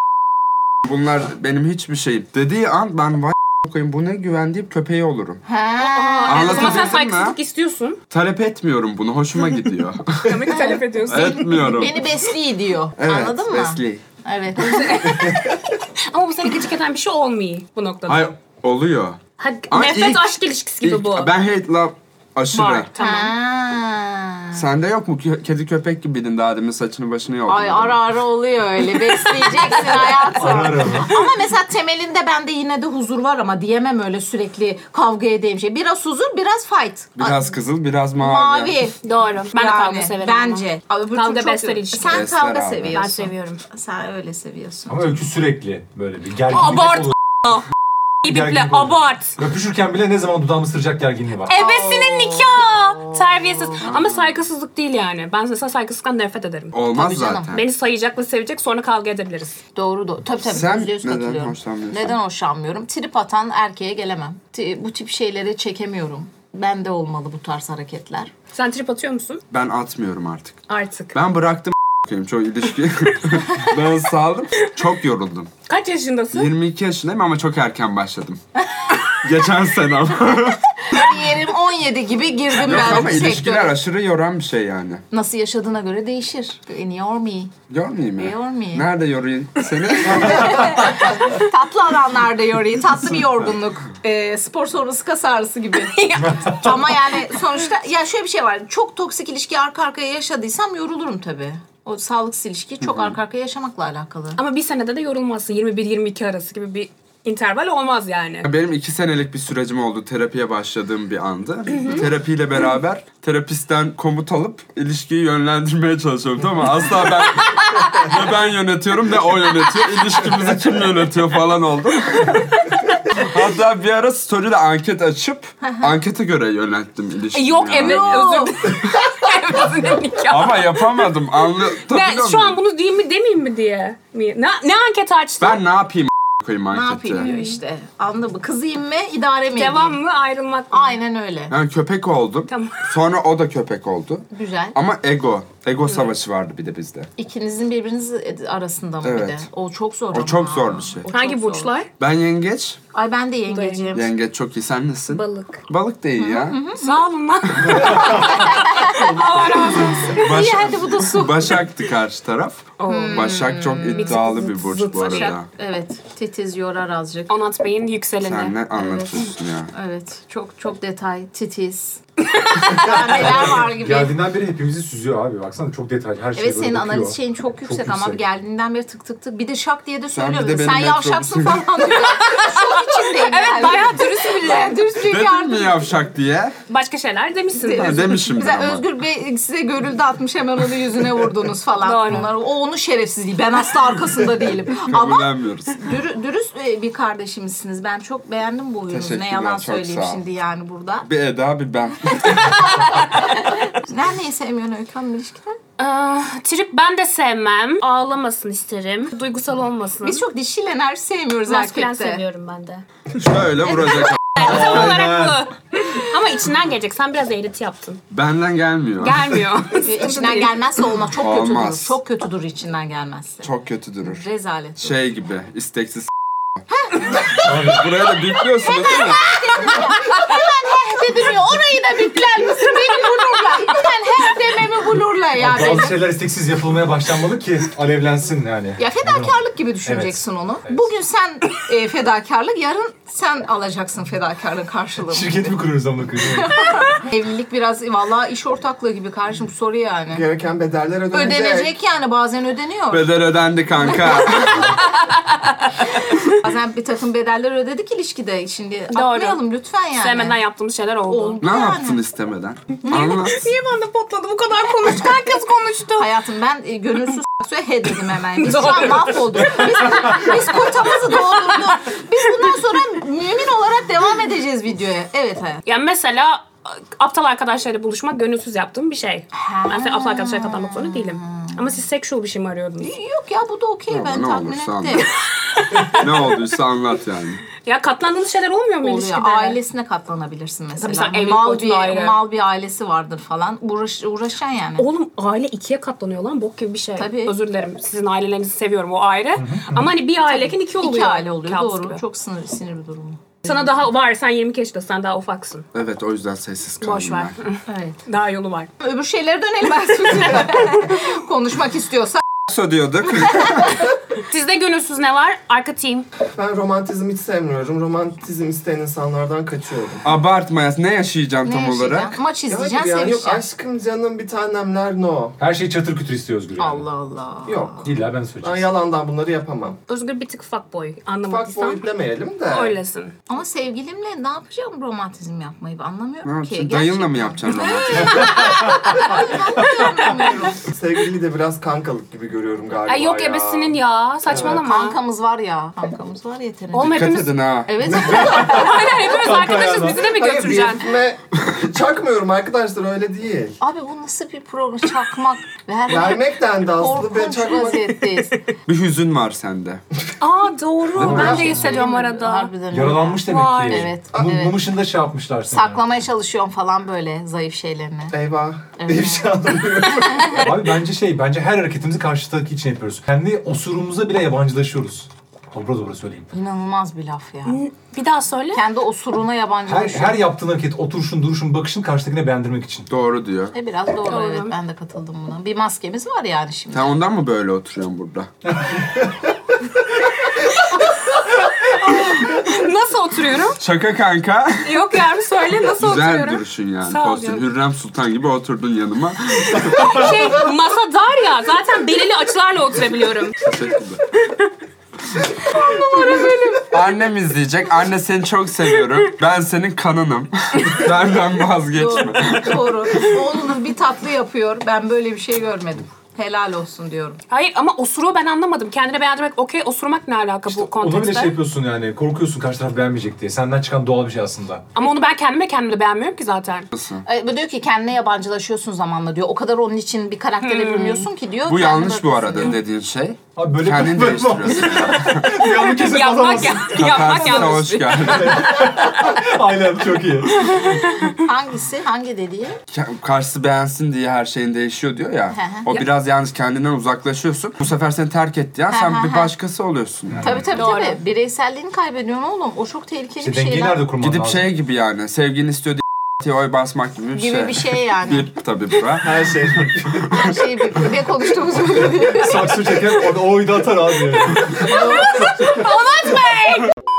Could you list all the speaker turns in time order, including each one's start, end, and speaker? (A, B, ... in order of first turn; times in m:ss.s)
0:00.8-0:05.4 A
0:05.4-0:07.0 B
0:05.8-0:08.0 C
0:06.2-0:07.4 A
0:08.1-0:12.0 A
0:10.2-0:12.0 C
0:10.5-0:15.4 B
0:13.0-0:14.0 A
0:14.7-0:18.3 C
0:15.1-0:15.5 D
0:18.1-0:22.9 A
0:19.4-0:21.3 C
0:22.5-0:23.3 C
0:23.0-0:24.6 B
0:24.5-0:28.1 A
0:27.5-0:37.5 B
0:30.3-0:31.1 E
0:37.2-0:38.8 A
0:38.2-0:39.0 B
0:39.0-0:42.2 C
0:39.5-0:45.2 B
0:42.1-0:43.1 A
0:42.9-0:43.6 C
0:44.9-0:47.1 E
0:46.5-0:47.6 C
0:48.2-0:49.4 C
0:48.2-0:51.6 E
0:51.5-0:56.8 C
0:51.5-0:53.8 B
0:53.8-0:54.2 A
0:56.7-0:57.6 A
0:56.9-0:57.6 B
0:57.5-0:59.6 C
0:59.7-1:08.3 B
1:00.4-1:02.1 A
1:08.5-1:09.4 C
1:09.5-1:10.6 A
1:10.7-1:11.1 C
1:11.1-1:15.5 A
1:15.7-1:16.5 C
1:16.3-1:18.4 A
1:18.9-1:21.0 A
1:20.8-1:23.8 B
1:22.5-1:25.0 A
1:25.1-1:27.5 B
1:27.7-1:31.0 A
1:28.2-1:28.9 B
1:30.0-1:44.4 B
1:35.9-1:36.6 C
1:42.8-1:43.1 A
1:44.4-1:48.5 C
1:48.4-2:08.4 A
1:51.7-1:52.0 C
2:07.3-2:15.6 C
2:07.7-2:08.7 B
2:10.3-2:12.6 A
2:15.4-2:17.3 A
2:16.7-2:20.0 B
2:17.2-2:17.6 C
2:19.6-2:21.0 C
2:20.7-2:21.5 B
2:21.5-2:27.1 A
2:22.5-2:22.8 C
2:24.3-2:24.8 B
2:27.2-2:31.8 B
2:29.0-2:29.5 A
2:30.1-2:31.1 A
2:31.1-2:31.9 C
2:32.0-2:32.8 A
2:32.9-2:34.1 B
2:33.5-2:34.0 C
2:33.9-2:36.6 A
2:35.1-2:35.6 C
2:36.2-2:37.0 B
2:36.8-2:41.5 C
2:37.5-2:37.9 A
2:37.8-2:38.2 E
2:37.8-2:41.6 B
2:40.0-2:45.5 A
2:42.8-2:45.4 C
2:42.8-2:44.3 B
2:45.0-2:47.3 B
2:47.3-2:48.5 C
2:48.2-2:49.7 A
2:48.7-2:52.0 B
2:52.4-2:53.0 C
2:52.5-2:54.2 B
2:52.9-2:58.2 E
2:56.3-3:05.9 B
3:00.1-3:01.7 A
3:02.1-3:04.9 C
3:04.9-3:06.6 A
3:06.7-3:08.4 C
3:07.6-3:21.1 B
3:07.7-3:08.8 A
3:11.8-3:12.3 C
3:14.7-3:15.8 A
3:18.9-3:20.2 A
3:21.0-3:23.0 A
3:22.1-3:25.6 B
3:25.8-3:30.2 C
3:30.0-3:32.2 B
3:31.5-3:32.8 C
3:33.1-3:35.1 A
3:33.8-3:38.0 C
3:34.4-3:35.4 E
3:38.1-3:39.4 A
3:39.0-3:40.6 C
3:39.8-3:43.5 B
3:41.1-3:42.0 A
3:43.4-3:44.2 A
3:44.0-3:44.9 B
3:44.8-3:46.1 A
3:46.7-3:56.0 B
3:47.2-3:49.3 A
3:47.4-3:47.9 E
3:55.4-4:00.8 E
3:58.8-4:05.6 B
4:05.1-4:06.8 E
4:06.3-4:10.2 B
4:10.1-4:11.7 D
4:11.1-4:13.1 B
4:12.9-4:14.8 A
4:13.8-4:20.4 B
4:18.9-4:21.4 C
4:21.1-4:22.0 B
4:21.4-4:23.5 A
4:22.8-4:23.3 B
4:22.9-4:26.1 C
4:25.9-4:35.6 B
4:28.4-4:30.7 C
4:35.6-4:42.9 C
4:39.3-4:41.7 B
4:42.8-4:45.1 B
4:43.9-4:45.1 A
4:45.6-4:46.0 C
4:45.9-4:47.4 A
4:47.6-4:49.6 C
4:48.8-4:54.9 B
4:50.8-4:52.2 C
4:54.8-5:02.0 C
4:57.0-4:57.4 B
4:59.4-4:59.9 E
5:00.2-5:03.7 B
5:03.4-5:05.7 C
5:05.7-5:07.3 A
5:06.8-5:08.7 C
5:07.7-5:08.0 B
5:08.8-5:12.2 B
5:12.5-5:13.9 A
5:14.2-5:16.1 C
5:16.3-5:20.0 D
5:20.0-5:22.2 A
5:21.4-5:23.4 B
5:22.5-5:25.4 D
5:25.4-5:26.8 E
5:26.6-5:27.8 B
5:27.5-5:27.8 D
5:27.8-5:28.7 E
5:28.4-5:29.8 D
5:29.9-5:31.8 C
5:31.2-5:32.8 D
5:32.5-5:33.1 C
5:33.3-5:40.6 B
5:36.2-5:38.3 A
5:37.9-5:39.2 C
5:40.4-5:44.6 D
5:42.8-5:45.0 C
5:44.3-5:49.1 B
5:46.7-5:47.4 C
5:46.9-5:47.7 A
5:47.9-5:50.3 E
5:48.2-5:50.8 C
5:50.2-5:53.6 D
5:53.6-5:58.4 B
5:55.9-5:58.0 D
5:58.7-5:59.8 A
6:00.2-6:02.5 C
6:01.0-6:01.8 E
6:01.0-6:01.7 D
6:01.0-6:04.6 B
6:02.7-6:05.8 E
6:03.2-6:03.9 C
6:05.5-6:08.1 B
6:08.1-6:10.5 D
6:08.8-6:09.4 B
6:10.0-6:10.4 B
6:10.4-6:16.3 E
6:16.3-6:17.6 B
6:17.4-6:18.6 C
6:18.5-6:20.2 B
6:19.6-6:22.9 E
6:22.9-6:23.5 A
6:23.5-6:26.9 B
6:24.0-6:24.5 C
6:26.7-6:28.3 A
6:28.6-6:29.0 E
6:30.7-6:33.6 C
6:33.6-6:34.7 A
6:34.6-6:37.4 C
6:35.8-6:40.2 A
6:39.5-6:43.4 C
6:43.4-6:44.0 A
6:45.3-6:46.9 C
6:46.7-6:53.2 A
6:51.7-6:57.2 B
6:57.3-7:01.3 C
7:00.5-7:04.6 E
7:04.7-7:06.7 C
7:06.7-7:07.0 A
7:07.0-7:12.6 B
7:10.4-7:11.1 C
7:11.5-7:15.5 A
7:13.4-7:20.9 E
7:15.3-7:18.6 C
7:16.7-7:18.7 A
7:20.5-7:21.1 C
7:21.1-7:22.6 B
7:22.7-7:30.4 A
7:25.3-7:25.8 B
7:28.7-7:29.3 B
7:30.1-7:30.5 E
7:30.2-7:33.9 B
7:30.5-7:31.0 C
7:33.2-7:34.5 E
7:34.0-7:39.3 A
7:37.1-7:38.3 B
7:39.1-7:40.0 D
7:39.1-7:40.2 E
7:40.1-7:43.0 B
7:41.9-7:45.5 E
7:44.3-7:46.7 C
7:44.6-7:45.3 B